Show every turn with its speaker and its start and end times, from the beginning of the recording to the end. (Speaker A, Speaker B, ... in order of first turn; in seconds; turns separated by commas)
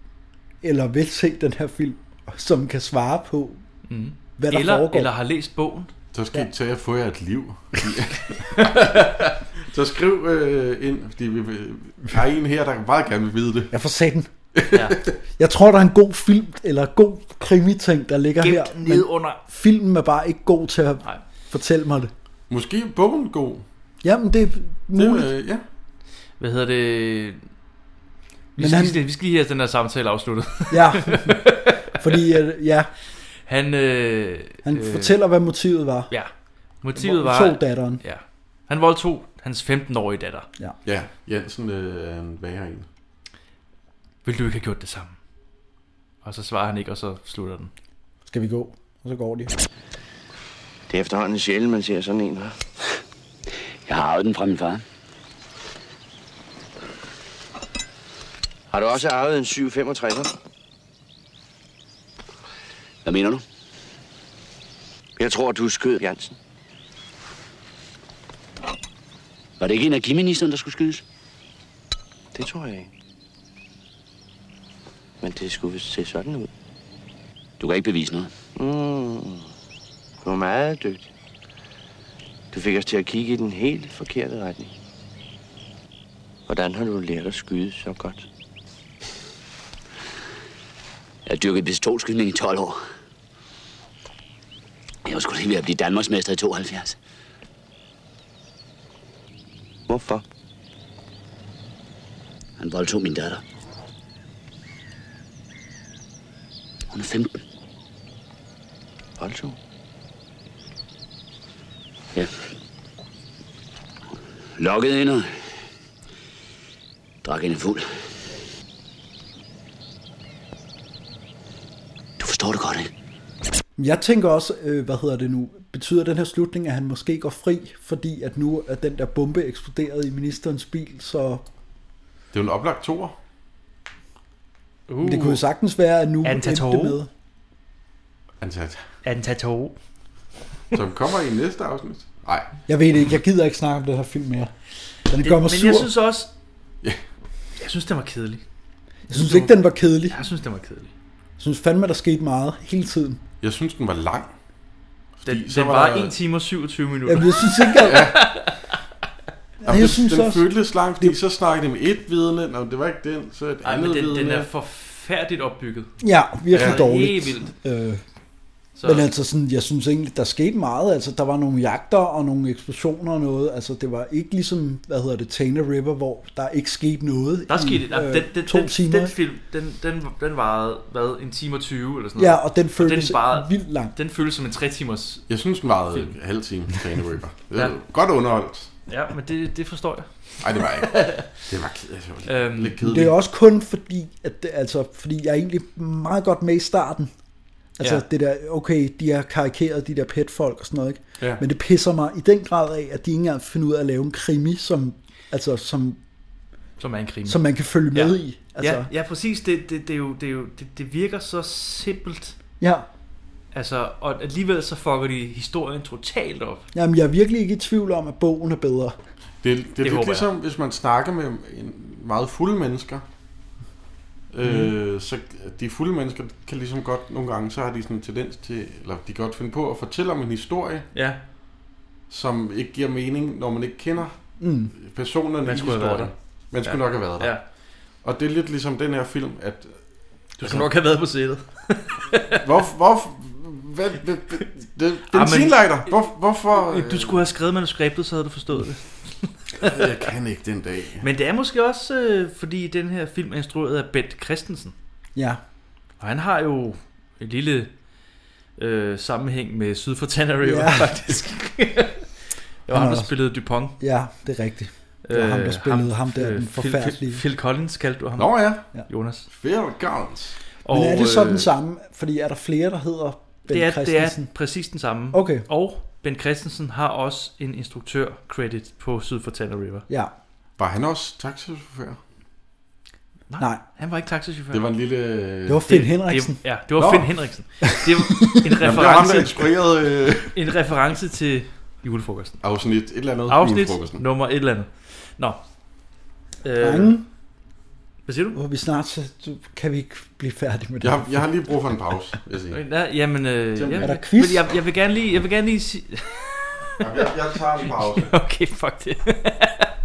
Speaker A: 0.6-3.6, Speaker B: 3.9-5.9, Speaker A: 4.4-5.1, Speaker C: 6.1-13.7, Speaker B: 8.6-9.3, Speaker A: 13.7-14.3, Speaker C: 14.6-15.1, Speaker B: 14.7-15.0, Speaker A: 15.4-22.1, Speaker B: 18.4-19.4, Speaker C: 22.5-23.6, Speaker A: 24.0-25.3, Speaker C: 25.0-25.6, Speaker B: 26.4-27.4, Speaker A: 28.6-29.0, Speaker B: 28.6-31.9, Speaker A: 30.7-32.9, Speaker B: 33.5-35.1, Speaker A: 34.6-36.1, Speaker B: 36.8-40.5, Speaker A: 37.0-38.0, Speaker C: 40.9-42.9, Speaker B: 44.2-45.2, Speaker B: 46.2-47.7, Speaker A: 48.3-49.5, Speaker D: 50.9-52.6, Speaker E: 53.9-54.8, Speaker D: 58.7-60.3, Speaker E: 63.0-63.4, Speaker D: 65.2-66.4, Speaker E: 69.6-71.0, Speaker D: 72.3-72.9, Speaker D: 75.2-76.5, Speaker E: 77.6-78.3, Speaker D: 78.6-79.5, Speaker D: 80.2-81.1, Speaker D: 82.5-84.7, Speaker D: 86.5-88.3, Speaker E: 91.3-92.8, Speaker E: 95.0-97.0, Speaker D: 99.9-100.2, Speaker E: 102.6-103.4, Speaker E: 106.9-107.4, Speaker D: 109.2-109.6, Speaker E: 114.6-115.3, Speaker E: 117.2-117.9, Speaker E: 122.2-122.9, Speaker A: 123.8-131.4, Speaker C: 132.3-133.2, Speaker B: 134.9-135.4, Speaker A: 135.0-137.1, Speaker B: 136.2-137.0, Speaker C: 138.4-138.8, Speaker B: 139.0-139.8, Speaker C: 140.7-142.5, Speaker A: 142.7-144.5, Speaker A: 145.1-145.9, Speaker B: 145.2-146.3, Speaker B: 147.6-148.4, Speaker A: 149.1-150.2, Speaker C: 149.1-149.4, Speaker B: 150.1-150.9, Speaker A: 151.4-153.2, Speaker C: 153.4-154.3, Speaker C: 155.2-156.2, Speaker B: 155.3-158.8, Speaker A: 157.1-158.1, Speaker C: 157.8-158.2, Speaker A: 159.6-160.5, Speaker C: 159.6-164.5, Speaker B: 163.6-165.9, Speaker A: 166.0-168.0, Speaker B: 166.5-167.5, Speaker C: 166.5-166.8, Speaker B: 168.8-169.1, Speaker A: 168.8-179.1, Speaker B: 177.5-185.3, Speaker A: 182.2-183.9, Speaker C: 185.3-188.7, Speaker B: 188.9-191.4, Speaker C: 190.4-193.2, Speaker B: 192.3-192.8, Speaker A: 192.8-197.1, Speaker A: 197.8-206.0, Speaker B: 197.8-198.1, Speaker B: 206.8-212.4, Speaker A: 207.3-208.9, Speaker A: 212.6-212.9, Speaker B: 213.5-216.7, Speaker A: 216.7-219.0, Speaker C: 219.4-223.0, Speaker B: 219.8-220.3, Speaker C: 224.3-230.9, Speaker B: 230.9-231.2, Speaker C: 232.1-234.2, Speaker A: 234.4-234.7, Speaker C: 234.8-237.4, Speaker B: 235.4-236.1, Speaker B: 236.6-237.4, Speaker C: 238.0-239.8, Speaker B: 240.4-242.4, Speaker C: 240.4-240.7, Speaker C: 242.4-247.2, Speaker B: 245.1-245.8, Speaker B: 246.7-249.9, Speaker C: 249.6-251.1, Speaker B: 251.0-254.8, Speaker A: 255.2-255.4, Speaker B: 256.0-257.7, Speaker B: 258.6-262.1, Speaker A: 260.4-261.2, Speaker B: 262.7-263.8, Speaker A: 262.7-263.1, Speaker A: 263.8-267.2, Speaker B: 265.1-269.3, Speaker C: 268.2-268.7, Speaker C: 269.3-270.4, Speaker B: 270.6-271.5, Speaker A: 270.7-274.3, Speaker B: 273.5-279.9, Speaker A: 275.1-275.5, Speaker C: 280.6-282.0, Speaker B: 283.3-284.6, Speaker C: 284.5-285.7, Speaker A: 285.5-286.4, Speaker B: 285.7-289.3, Speaker C: 286.8-287.1, Speaker A: 287.6-289.4, Speaker C: 288.6-290.4, Speaker B: 290.3-292.4, Speaker C: 292.4-294.0, Speaker B: 293.3-295.4, Speaker B: 296.4-297.0, Speaker A: 296.6-297.1, Speaker B: 298.1-298.4, Speaker A: 298.4-301.2, Speaker C: 300.8-302.6, Speaker B: 302.5-309.7, Speaker C: 303.6-303.9, Speaker A: 303.8-304.4, Speaker C: 306.8-308.1